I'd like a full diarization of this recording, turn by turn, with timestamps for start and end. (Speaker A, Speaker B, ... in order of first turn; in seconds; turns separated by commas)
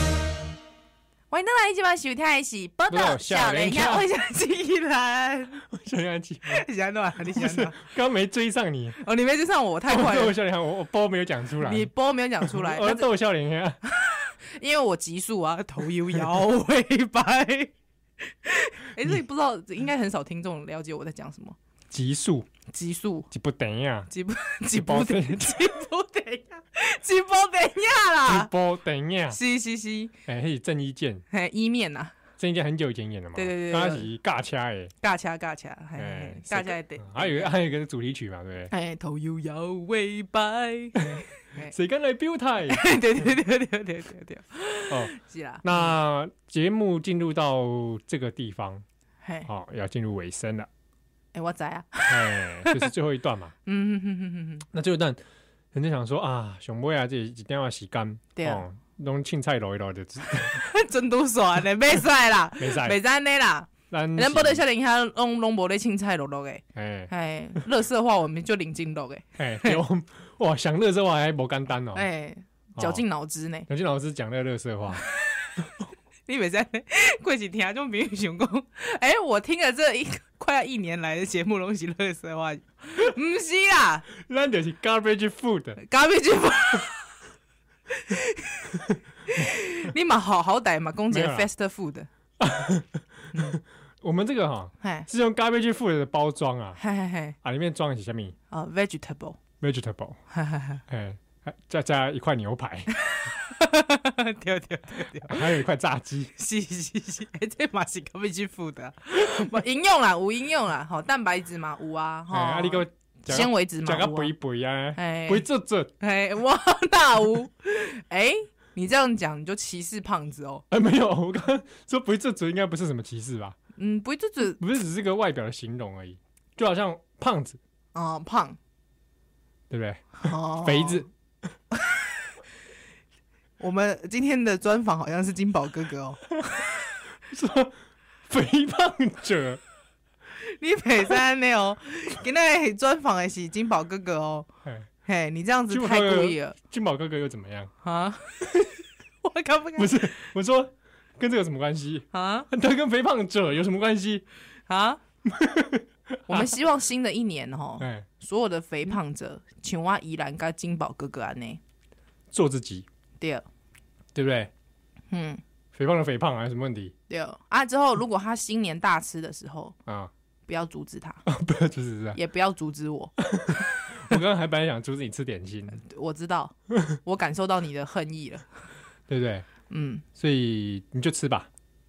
Speaker A: 1.3-5.6, Speaker B: 2.9-4.1, Speaker B: 5.7-6.6, Speaker A: 6.5-7.8, Speaker B: 7.3-9.0, Speaker A: 9.0-10.3, Speaker B: 9.9-11.9, Speaker A: 11.6-13.1, Speaker B: 12.4-13.8, Speaker A: 13.8-17.7, Speaker A: 18.4-21.6, Speaker B: 21.9-22.5, Speaker A: 22.7-23.3, Speaker B: 23.3-24.1, Speaker A: 24.1-28.5, Speaker B: 24.7-25.7, Speaker B: 28.2-29.4, Speaker A: 29.3-30.1, Speaker B: 30.3-31.2, Speaker A: 31.3-32.1, Speaker B: 32.4-34.9, Speaker A: 33.3-34.1, Speaker A: 35.0-37.5, Speaker B: 36.0-38.7, Speaker A: 38.7-41.7, Speaker B: 41.0-43.4, Speaker A: 42.7-45.9, Speaker B: 44.9-48.8, Speaker A: 49.2-49.5, Speaker B: 49.5-50.7, Speaker A: 51.3-52.9, Speaker B: 52.1-53.5, Speaker A: 53.6-54.7, Speaker B: 54.7-55.2, Speaker B: 55.7-60.6, Speaker A: 58.3-58.6, Speaker A: 60.3-69.8, Speaker B: 62.6-63.0, Speaker B: 63.9-64.6, Speaker B: 66.7-67.1, Speaker B: 69.4-72.1, Speaker A: 71.9-73.7, Speaker B: 72.8-73.0, Speaker B: 73.7-75.0, Speaker A: 75.0-75.7, Speaker A: 76.2-84.1, Speaker B: 84.2-85.8, Speaker A: 85.8-87.1, Speaker A: 87.9-92.1, Speaker B: 91.1-91.5, Speaker B: 92.4-96.8, Speaker A: 94.8-95.1, Speaker A: 96.8-97.4, Speaker B: 97.4-98.3, Speaker A: 98.5-99.4, Speaker B: 99.6-100.2, Speaker A: 100.3-100.8, Speaker B: 100.9-102.9, Speaker A: 103.0-105.5, Speaker B: 105.1-106.3, Speaker A: 106.3-114.3, Speaker B: 112.3-115.9, Speaker A: 115.0-115.5, Speaker A: 116.0-120.6, Speaker B: 120.7-123.5, Speaker A: 123.8-124.6, Speaker B: 124.6-127.6, Speaker A: 127.9-128.6, Speaker B: 129.7-131.1, Speaker A: 130.2-131.1, Speaker A: 131.7-132.0, Speaker A: 133.6-136.2, Speaker B: 137.2-137.8, Speaker B: 138.3-139.6, Speaker A: 140.3-144.5, Speaker A: 145.0-146.6, Speaker B: 145.7-147.7, Speaker A: 147.8-150.1, Speaker B: 149.8-154.2, Speaker A: 152.1-152.5, Speaker A: 154.7-155.0, Speaker B: 155.2-156.5, Speaker A: 156.3-161.6, Speaker B: 157.8-158.1, Speaker B: 162.3-162.9, Speaker A: 163.2-163.4, Speaker B: 164.1-164.5, Speaker A: 165.1-165.4, Speaker B: 165.7-166.9, Speaker A: 167.1-169.8, Speaker A: 170.5-171.2, Speaker B: 171.2-172.2, Speaker A: 172.1-173.2, Speaker B: 173.2-175.8, Speaker A: 175.8-178.5, Speaker B: 179.1-179.5, Speaker A: 179.7-180.0, Speaker B: 180.2-181.5